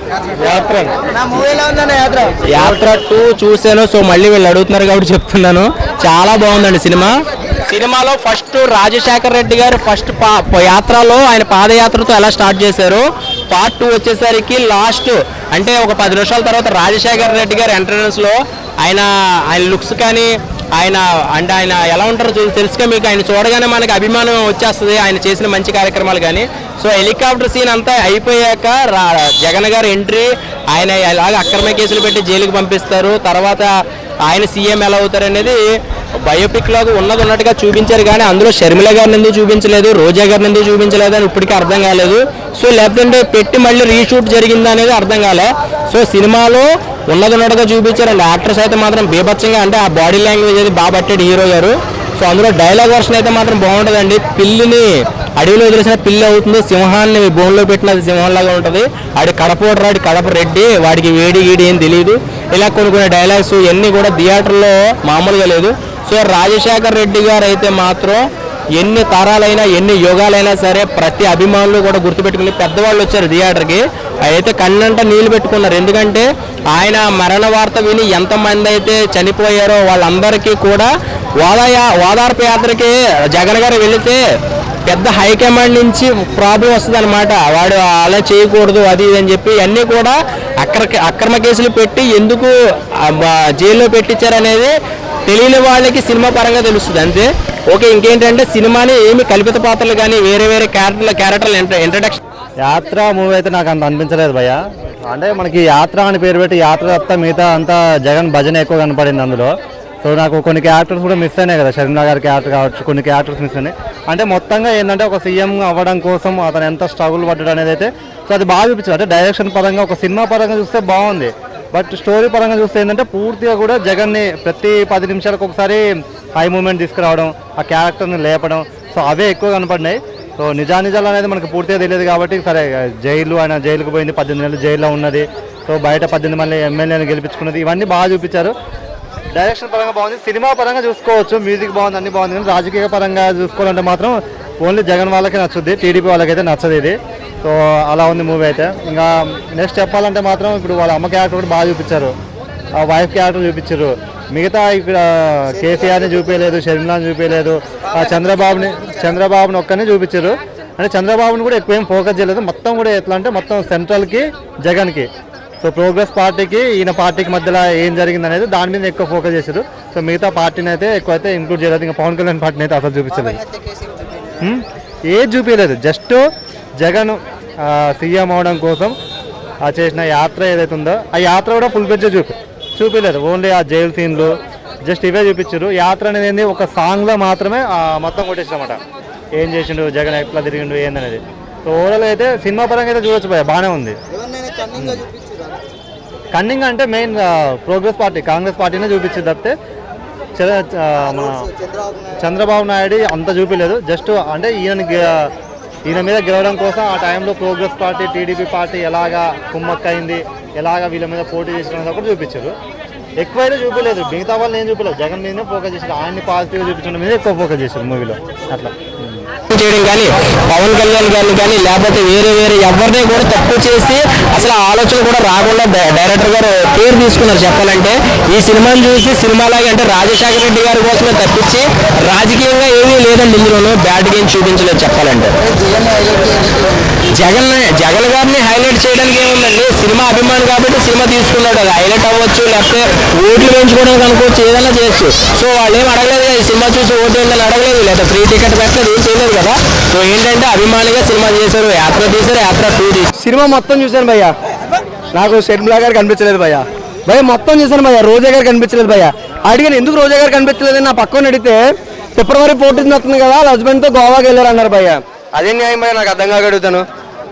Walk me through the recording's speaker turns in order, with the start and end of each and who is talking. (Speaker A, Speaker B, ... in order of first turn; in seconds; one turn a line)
Speaker A: 0.4-1.0
Speaker B: 1.2-2.3
Speaker A: 2.5-7.1
Speaker A: 7.7-33.7
Speaker A: 34.2-35.6
Speaker A: 36.2-68.2
Speaker A: 68.8-80.9
Speaker A: 81.4-84.2
Speaker A: 84.9-94.7
Speaker A: 95.3-102.2
Speaker C: 102.6-109.5
Speaker C: 110.0-125.8
Speaker C: 126.4-138.5
Speaker C: 139.3-152.1
Speaker C: 152.7-165.1
Speaker C: 165.6-173.4
Speaker B: 173.4-174.3
Speaker C: 174.4-176.2
Speaker C: 176.8-178.9
Speaker C: 179.6-188.8
Speaker C: 189.4-194.0
Speaker B: 194.2-195.6
Speaker C: 194.8-195.0
Speaker C: 196.3-199.5
Speaker C: 200.3-201.5
Speaker C: 202.2-205.3
Speaker C: 205.8-212.5
Speaker C: 213.2-219.2
Speaker A: 219.5-235.3
Speaker B: 235.5-236.8
Speaker A: 237.1-253.1
Speaker B: 253.2-254.3
Speaker B: 255.1-261.6
Speaker B: 262.1-266.8